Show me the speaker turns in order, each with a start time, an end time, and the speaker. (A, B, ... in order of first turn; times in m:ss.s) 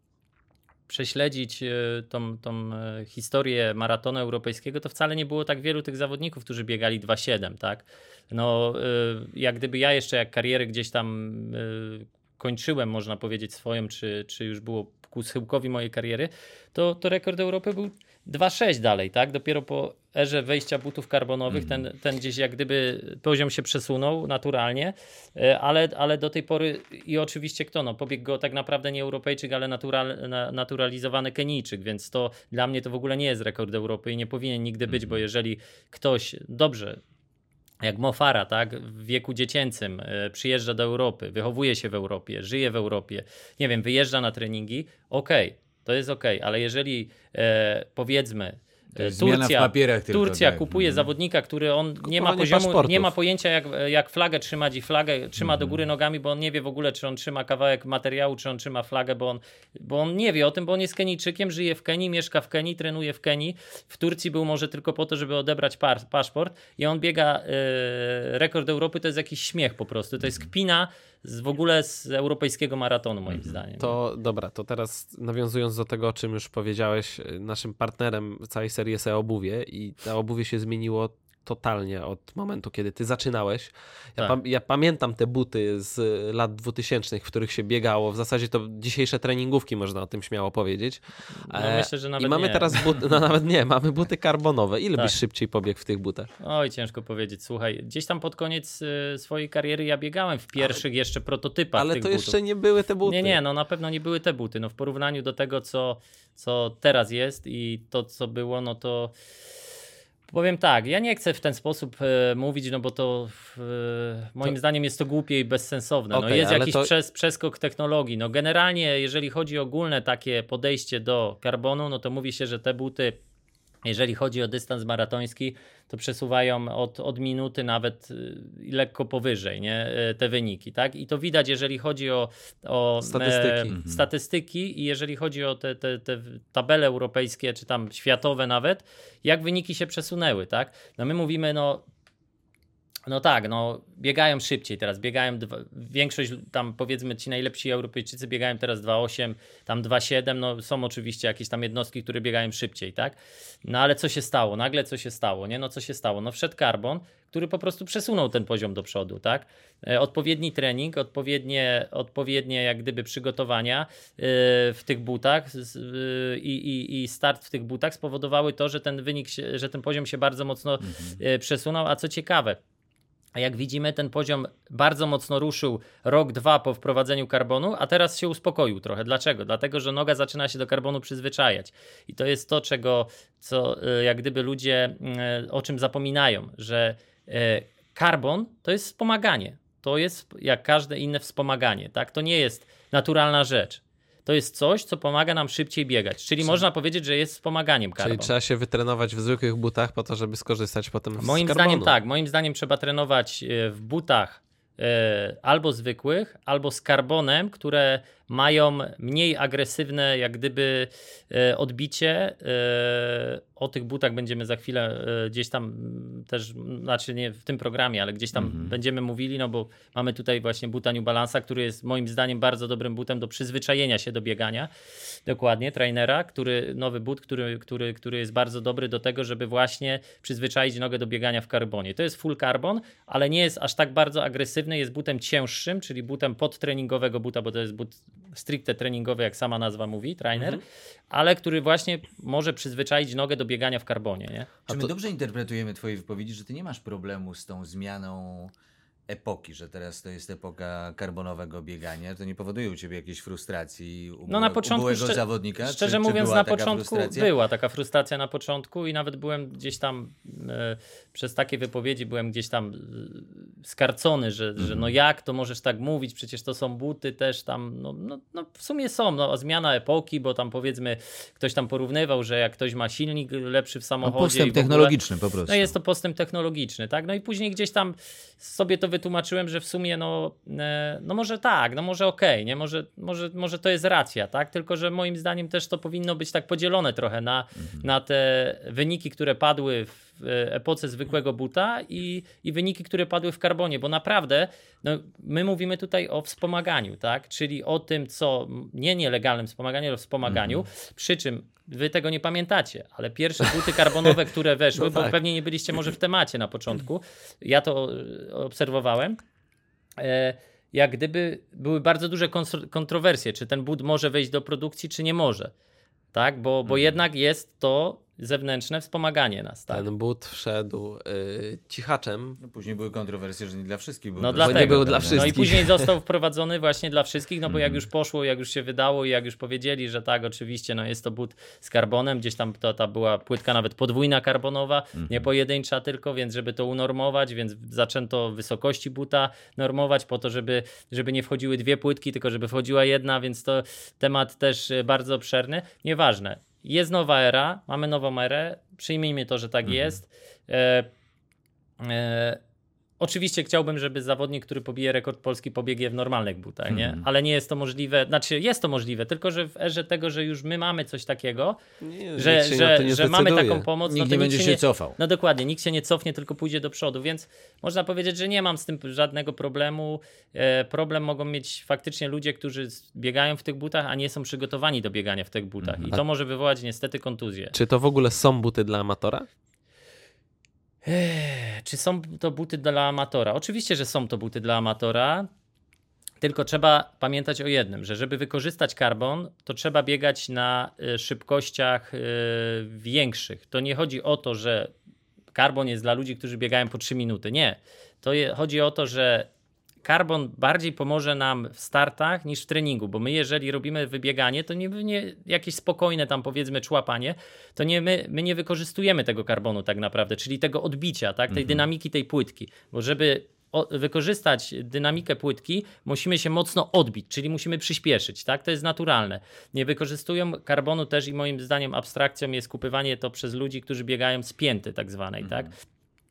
0:00.9-0:37.0 A
0:21.5-0:21.8 B
0:34.9-0:35.2 B
0:37.8-1:14.0 A
0:49.0-0:51.1 B
0:52.0-0:53.1 C
0:55.4-0:55.8 B
1:13.3-1:13.6 B
1:13.8-1:36.3 C
1:31.5-1:32.9 A
1:36.4-1:42.4 A
1:41.8-1:43.4 C
1:43.0-1:49.1 A
1:50.3-2:03.2 A
1:56.1-1:56.9 C
2:03.8-2:21.8 A
2:13.0-2:13.8 C
2:13.7-2:14.1 B
2:23.1-2:52.6 A
2:50.8-2:51.2 B
2:53.4-3:18.3 A
3:18.0-3:21.9 C
3:21.2-3:44.7 A
3:38.4-3:38.8 B
3:45.3-4:00.6 A
4:00.4-4:00.6 C
4:01.1-4:04.5 A
4:04.7-4:08.5 B
4:09.1-4:17.3 B
4:14.3-4:34.9 A
4:24.6-4:24.9 B
4:34.0-4:35.7 B
4:35.5-5:09.2 A
4:47.6-4:47.9 B
5:00.3-5:00.6 B
5:03.7-5:04.2 C
5:04.8-5:05.2 C
5:10.0-5:15.5 A
5:16.1-5:19.8 A
5:16.6-5:17.0 B
5:19.7-5:22.4 C
5:22.4-5:25.4 B
5:24.2-5:50.9 A
5:24.3-5:25.9 C
5:27.5-5:27.8 B
5:35.0-5:35.3 B
5:49.6-5:50.0 B
5:51.8-5:52.4 A
5:53.0-6:01.6 A
5:56.7-5:57.0 B
6:01.8-6:03.6 C
6:02.2-6:17.5 A
6:03.9-6:05.0 B
6:15.6-6:16.0 B
6:17.5-6:19.3 C
6:20.9-6:25.3 A
6:26.2-6:34.7 A
6:35.4-6:39.3 A
6:39.8-7:05.5 A
6:51.3-6:51.7 B
7:05.2-7:05.5 B